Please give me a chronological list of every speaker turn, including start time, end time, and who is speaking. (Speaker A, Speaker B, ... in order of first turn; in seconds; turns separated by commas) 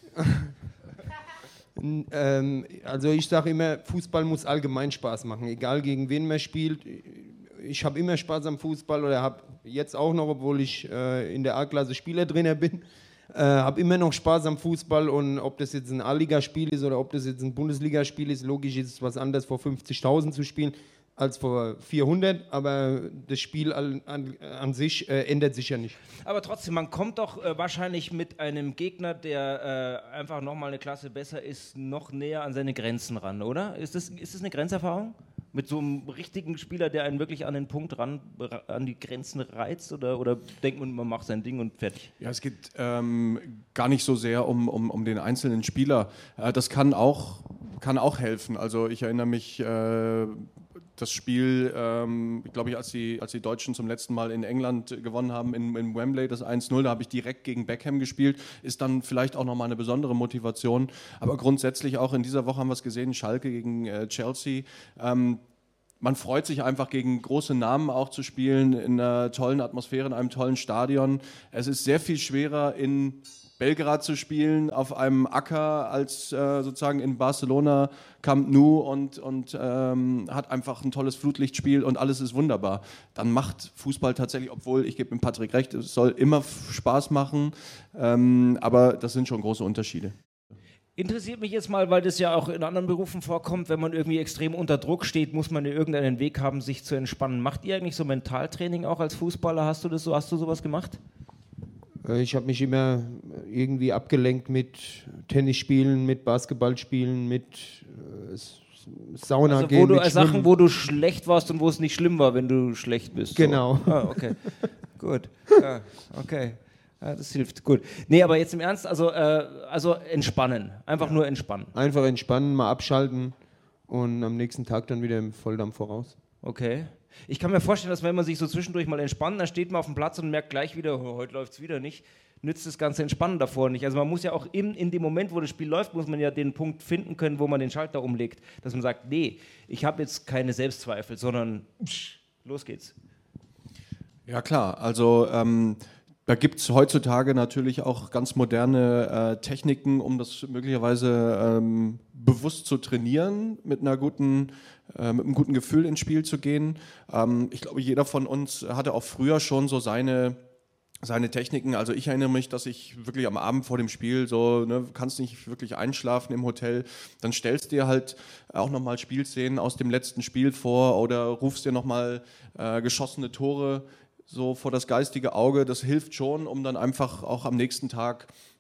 Speaker A: 0.2-0.5, Speaker A: 1.8-26.0, Speaker B: 26.2-42.1, Speaker C: 42.2-65.4, Speaker C: 66.0-90.2, Speaker B: 91.0-101.0, Speaker A: 102.0-110.5, Speaker B: 109.5-114.4, Speaker A: 113.3-114.3, Speaker B: 115.0-121.7, Speaker A: 121.7-123.3, Speaker A: 123.9-126.2, Speaker B: 126.4-142.9, Speaker C: 144.3-160.4, Speaker C: 161.0-178.3